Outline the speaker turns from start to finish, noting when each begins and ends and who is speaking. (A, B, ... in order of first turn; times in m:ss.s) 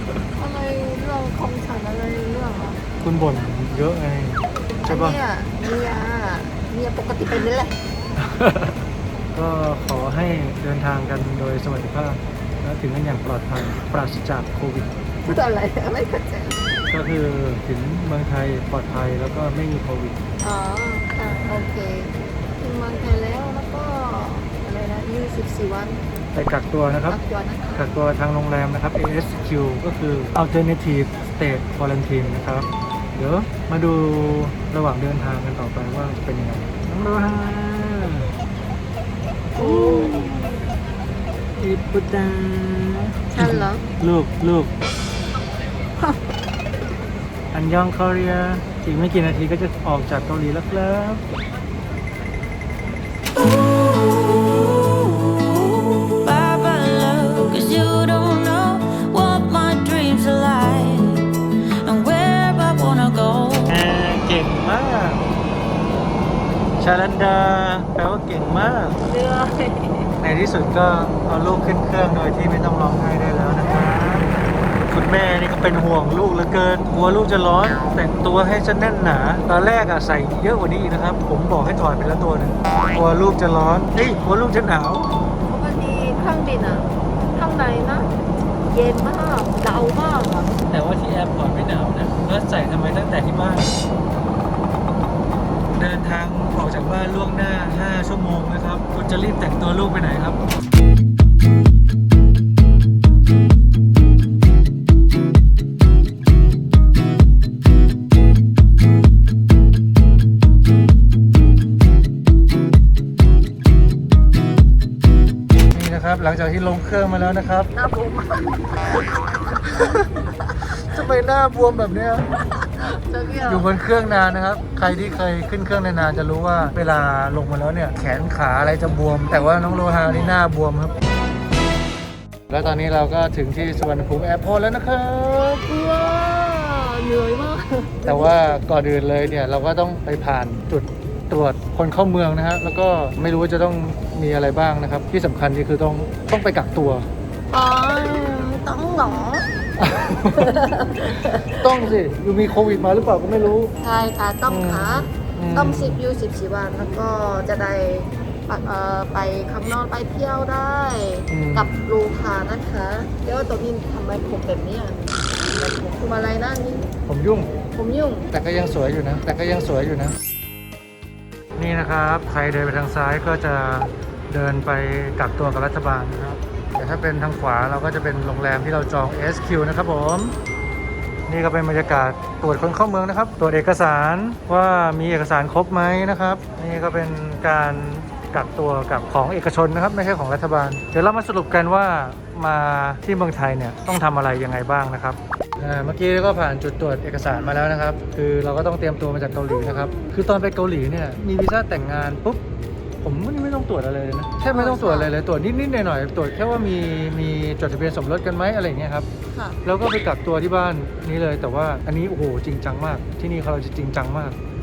0:00.4-0:02.8 A
0:03.0-0:05.2 B
0:04.8-0:07.8 A
0:08.2-0:08.8 B
0:09.3-0:14.9 B
0:15.3-0:16.6 A
0:16.9-0:20.2 B
0:20.4-0:26.0 A
0:21.2-0:21.7 B
0:26.3-0:27.2 B
0:27.1-0:27.9 A
0:27.7-0:38.3 B
0:39.6-0:40.4 A
0:39.6-0:40.6 B
0:41.6-0:44.7 B
0:43.3-0:43.8 A
0:47.5-0:51.2 B
0:53.4-1:03.7 C
1:03.7-1:05.2 B
1:06.8-1:09.0 B
1:09.0-1:10.1 A
1:10.2-1:14.3 B
1:14.9-1:25.1 B
1:25.5-1:28.1 A
1:28.7-1:30.5 A
1:30.7-1:33.7 B
1:35.7-1:40.4 B
1:55.7-1:57.7 B
1:57.7-2:00.5 A
1:59.8-2:00.1 B
2:00.7-2:02.2 B
2:02.5-2:03.7 A
2:03.5-2:10.9 B
2:09.3-2:10.3 A
2:12.5-2:15.7 B
2:15.7-2:18.4 A
2:18.0-2:27.1 B
2:27.5-2:29.5 A
2:29.8-2:30.6 B
2:30.3-2:31.9 A
2:31.1-2:33.7 B
2:33.8-2:46.9 A
2:34.5-2:36.0 B
2:41.3-2:41.9 B
2:47.1-2:47.5 B
2:47.7-2:48.3 A
2:48.3-2:50.2 B
2:51.6-3:00.4 B
3:01.3-3:22.4 B
3:19.5-3:20.1 A
3:23.0-3:29.1 B
3:24.5-3:25.2 A
3:29.3-3:29.6 A
3:29.6-3:34.4 B